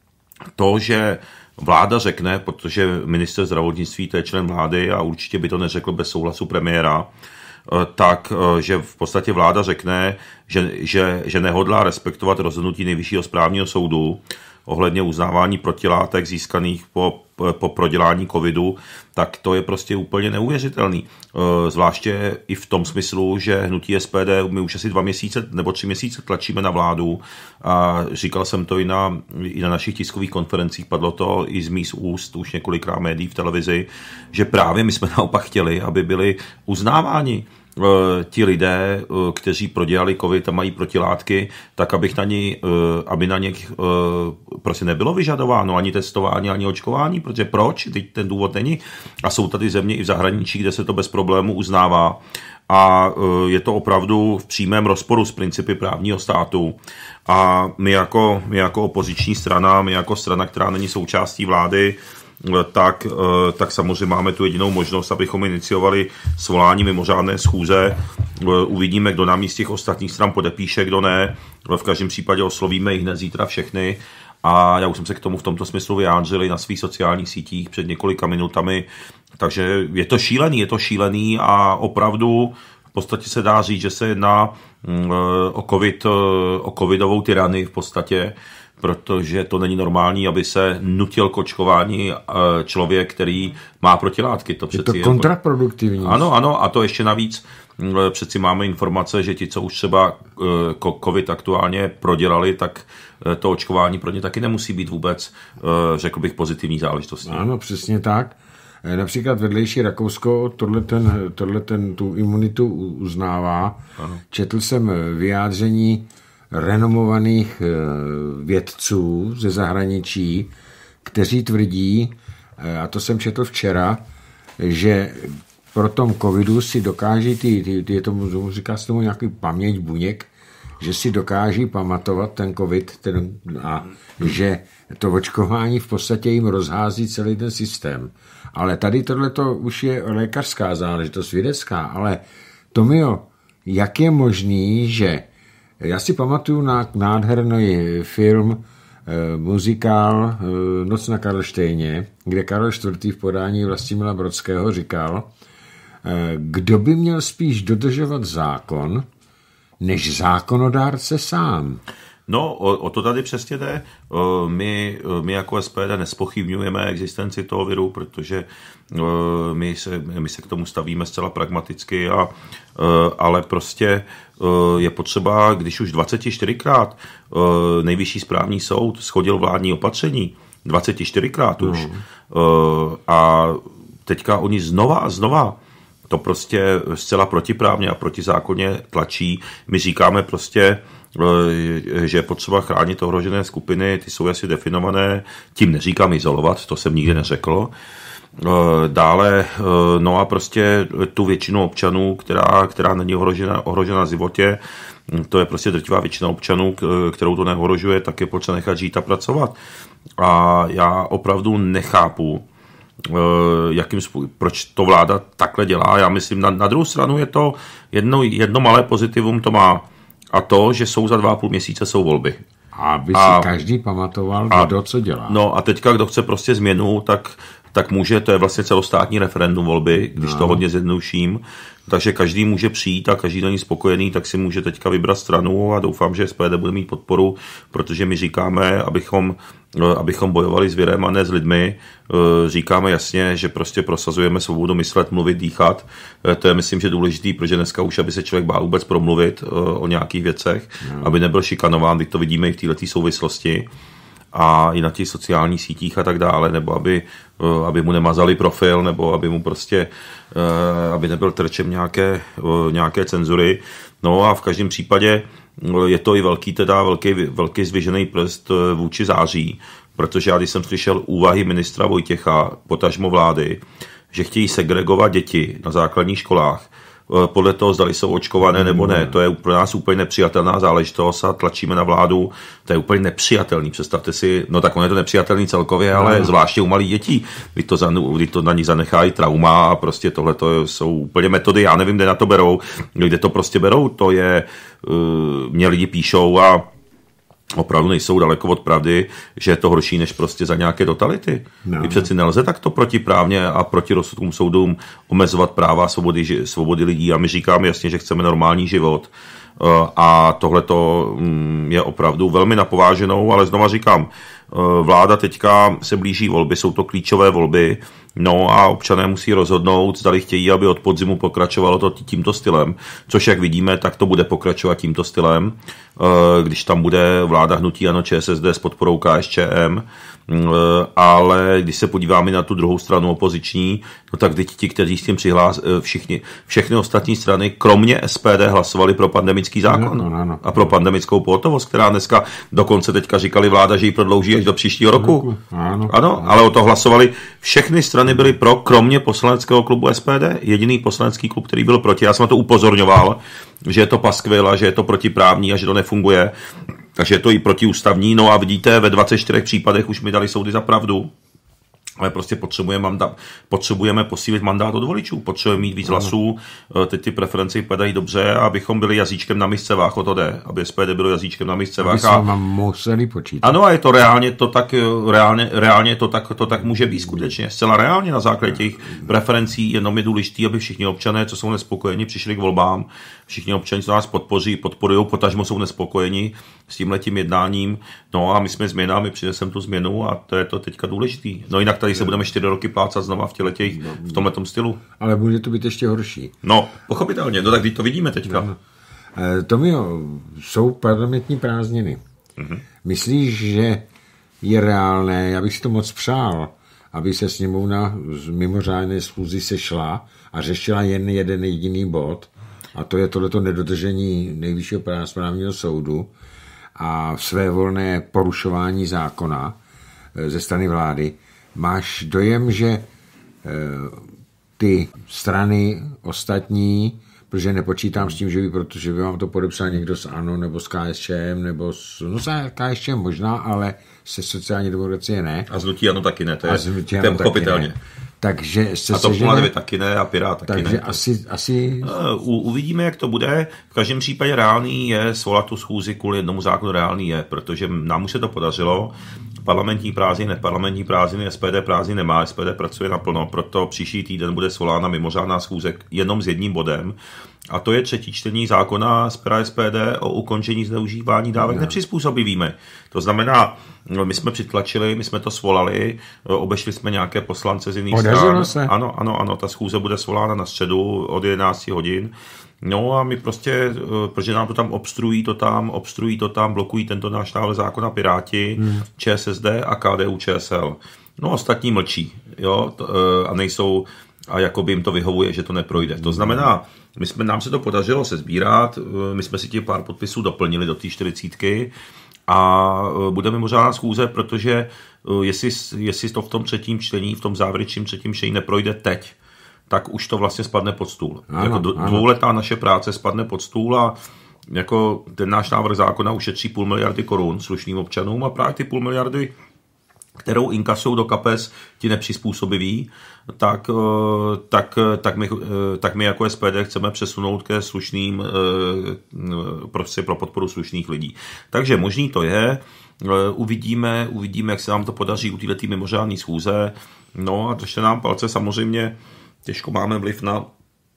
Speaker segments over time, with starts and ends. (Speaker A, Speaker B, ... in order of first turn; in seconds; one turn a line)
Speaker A: 0.6-7.1
Speaker A: 7.7-95.3
Speaker B: 94.7-96.3
Speaker A: 96.0-107.4
Speaker B: 107.2-120.5
Speaker B: 121.0-124.0
Speaker B: 124.6-145.2
Speaker B: 145.8-155.3
Speaker B: 156.0-159.1
Speaker B: 159.8-161.8
Speaker A: 162.3-185.6
Speaker B: 181.6-182.0
Speaker A: 186.1-197.7
Speaker A: 198.4-209.6
Speaker A: 210.2-212.4
Speaker A: 213.0-222.4
Speaker B: 222.7-225.4
Speaker A: 223.1-223.5
Speaker A: 225.3-253.7
Speaker B: 230.2-230.6
Speaker B: 250.8-251.1
Speaker A: 254.3-296.7
Speaker B: 278.5-279.1
Speaker B: 285.9-286.3
Speaker A: 297.5-345.2
Speaker B: 301.6-302.1
Speaker B: 339.7-340.5
Speaker B: 344.9-346.3
Speaker A: 345.9-356.3
Speaker A: 356.9-361.1
Speaker A: 362.0-372.2
Speaker B: 365.9-366.1
Speaker B: 371.8-373.5
Speaker A: 373.4-394.8
Speaker B: 393.7-394.2
Speaker B: 395.0-396.3
Speaker A: 396.4-398.5
Speaker B: 398.2-398.6
Speaker B: 399.1-402.0
Speaker A: 402.4-402.6
Speaker B: 402.8-403.9
Speaker B: 404.4-416.1
Speaker B: 416.8-419.6
Speaker B: 420.1-422.8
Speaker B: 423.4-424.1
Speaker B: 424.6-435.5
Speaker A: 435.5-437.8
Speaker B: 436.4-439.5
Speaker A: 438.9-441.0
Speaker B: 440.4-441.9
Speaker A: 441.8-457.0
Speaker A: 457.5-491.7
Speaker B: 461.4-461.7
Speaker B: 467.9-468.7
Speaker B: 478.6-478.8
Speaker B: 485.9-486.4
Speaker A: 492.3-499.1
Speaker A: 499.7-503.9
Speaker B: 501.3-502.1
Speaker A: 504.5-509.3
Speaker A: 510.2-530.5